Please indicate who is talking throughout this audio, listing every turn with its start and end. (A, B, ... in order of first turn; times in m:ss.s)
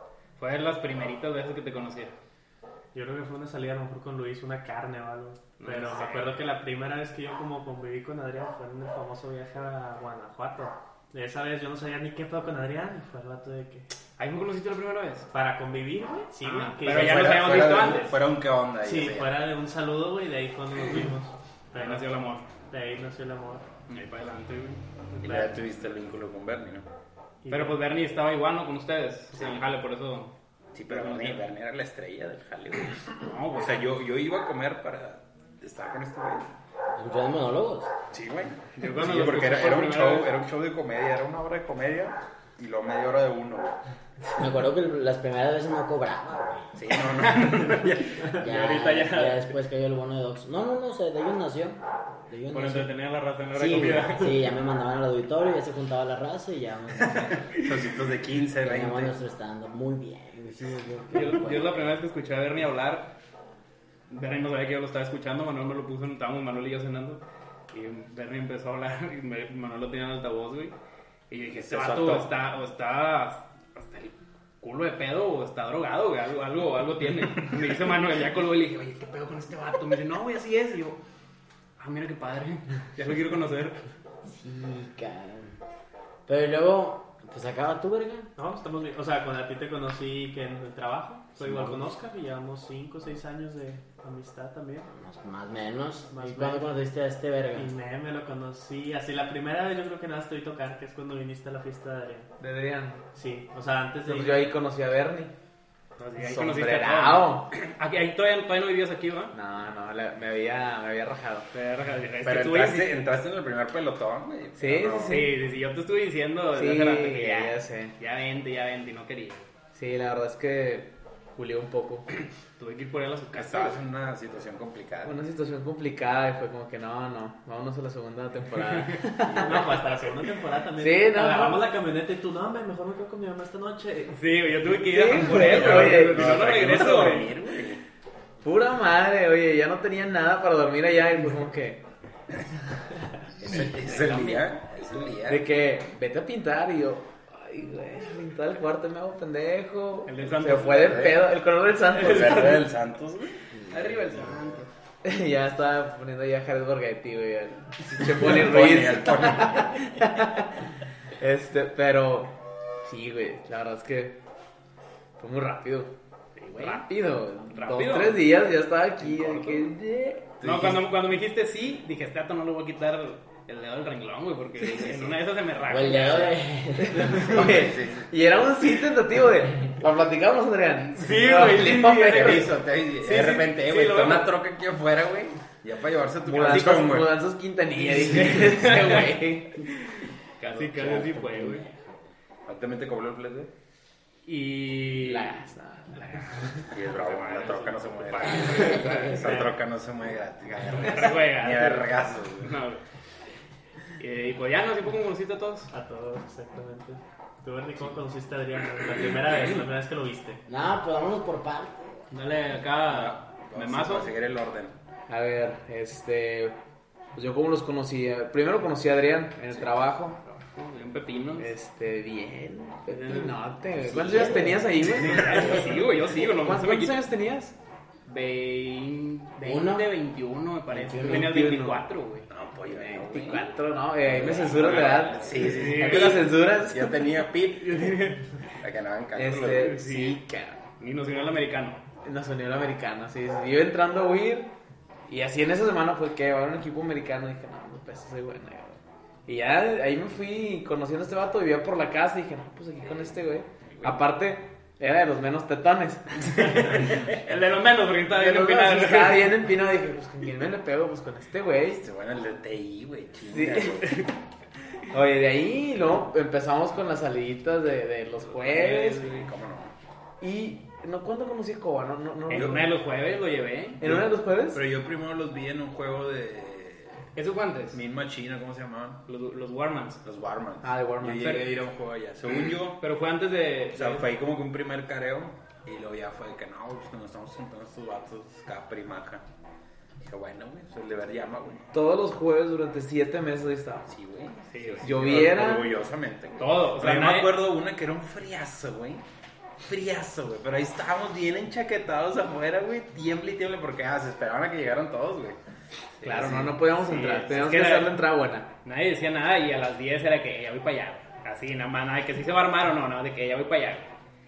0:00.4-0:02.1 A
0:02.9-0:13.9 B
0:05.6-0:06.3 A
0:14.2-0:15.3 A
0:15.3-0:17.5 B
0:16.4-0:18.2 A
0:16.8-0:19.3 C
0:18.8-0:22.1 B
0:21.7-0:22.4 A
0:22.7-0:23.7 B
0:23.9-0:24.8 A
0:25.2-0:25.5 B
0:25.2-0:26.8 C
0:27.4-0:27.8 B
0:27.5-0:30.3 A
0:29.3-0:29.6 C
0:30.7-0:36.5 C
0:30.9-0:31.4 A
0:33.2-0:33.9 A
0:37.0-0:37.9 D
0:38.1-0:43.8 C
0:38.8-0:40.3 A
0:44.4-0:46.7 D
0:46.8-0:48.2 C
0:47.1-0:49.5 A
0:48.3-0:52.9 D
0:52.5-0:54.5 A
0:53.5-0:57.4 D
0:57.6-0:59.2 C
0:58.6-1:01.9 D
1:01.1-1:03.1 A
1:04.1-1:07.2 A
1:07.7-1:10.7 A
1:11.3-1:21.0 A
1:11.5-1:12.3 C
1:21.8-1:23.8 A
1:24.3-1:25.5 D
1:26.3-1:28.3 D
1:28.4-1:34.9 B
1:31.4-1:31.8 D
1:34.9-1:37.7 D
1:36.1-1:36.7 B
1:37.5-1:42.3 B
1:42.4-1:43.0 E
1:43.1-1:44.5 B
1:44.0-1:45.3 E
1:46.0-1:49.3 A
1:46.2-1:47.5 E
1:49.3-1:51.5 E
1:51.5-1:53.0 A
1:52.2-1:55.3 C
1:54.6-1:55.4 E
1:55.1-1:59.5 A
1:56.5-1:57.9 E
1:59.7-2:02.1 E
2:02.6-2:03.8 A
2:03.3-2:05.2 C
2:05.0-2:09.8 E
2:09.2-2:09.6 C
2:09.4-2:14.3 B
2:10.8-2:11.7 E
2:14.1-2:17.4 A
2:14.7-2:17.2 E
2:15.2-2:17.8 C
2:18.4-2:21.8 E
2:23.4-2:25.5 C
2:23.9-2:24.4 E
2:25.2-2:32.6 E
2:30.0-2:31.2 A
2:30.3-2:31.3 C
2:31.9-2:33.4 C
2:32.0-2:32.6 A
2:33.7-2:34.7 A
2:35.0-2:40.5 E
2:38.0-2:39.8 C
2:41.2-2:42.3 E
2:42.8-2:44.2 E
2:45.2-2:45.9 E
2:46.4-2:46.9 A
2:46.6-2:50.3 E
2:47.5-2:48.3 A
2:49.0-2:49.7 A
2:50.4-2:50.8 C
2:50.4-2:56.4 A
2:54.6-2:55.2 C
2:55.7-2:57.4 D
2:56.8-3:02.5 E
2:57.2-2:58.1 C
3:01.0-3:04.3 A
3:02.1-3:07.2 C
3:06.2-3:09.7 E
3:07.8-3:09.1 A
3:10.4-3:11.6 A
3:10.6-3:11.1 C
3:11.3-3:11.6 D
3:12.5-3:13.5 C
3:14.2-3:15.3 A
3:15.0-3:16.7 E
3:16.7-3:22.6 C
3:16.8-3:19.5 A
3:20.6-3:22.8 A
3:24.0-3:25.7 A
3:25.7-3:30.4 B
3:30.5-3:32.0 D
3:32.1-3:34.1 A
3:32.9-3:34.8 C
3:35.1-3:36.6 E
3:37.1-3:40.2 E
3:39.5-3:39.7 C
3:40.2-3:41.5 A
3:41.4-3:47.5 E
3:42.9-3:43.4 A
3:43.9-3:45.5 C
3:44.2-3:44.6 D
3:44.2-3:47.0 A
3:48.0-3:52.3 A
3:49.4-3:49.9 D
3:50.7-3:51.3 D
3:50.9-3:51.9 E
3:52.3-3:59.8 C
3:52.7-3:56.9 E
3:54.1-3:56.4 A
3:57.6-3:58.2 A
3:59.1-4:00.6 E
3:59.2-4:00.2 A
4:00.8-4:01.8 A
4:02.0-4:04.5 E
4:05.1-4:17.2 E
4:16.3-4:19.4 A
4:18.1-4:21.8 E
4:21.7-4:24.1 C
4:23.3-4:23.9 E
4:24.9-4:29.2 E
4:28.4-4:29.7 C
4:28.4-4:29.3 A
4:30.2-4:32.7 E
4:32.3-4:33.8 A
4:32.3-4:32.6 C
4:33.8-4:34.6 E
4:33.8-4:37.0 C
4:37.2-4:37.8 A
4:37.7-4:39.0 C
4:39.1-4:40.0 A
4:40.0-4:42.8 C
4:40.6-4:41.4 E
4:41.2-4:41.4 A
4:42.8-4:44.1 A
4:43.7-4:49.2 C
4:50.0-4:51.7 C
4:51.7-4:53.9 E
4:53.9-4:59.0 C
4:54.5-4:55.2 A
4:54.8-4:55.7 E
4:56.4-4:57.3 A
4:59.6-5:05.4 C
5:06.0-5:06.6 C
5:06.0-5:08.5 E
5:06.8-5:08.0 A
5:08.6-5:13.9 A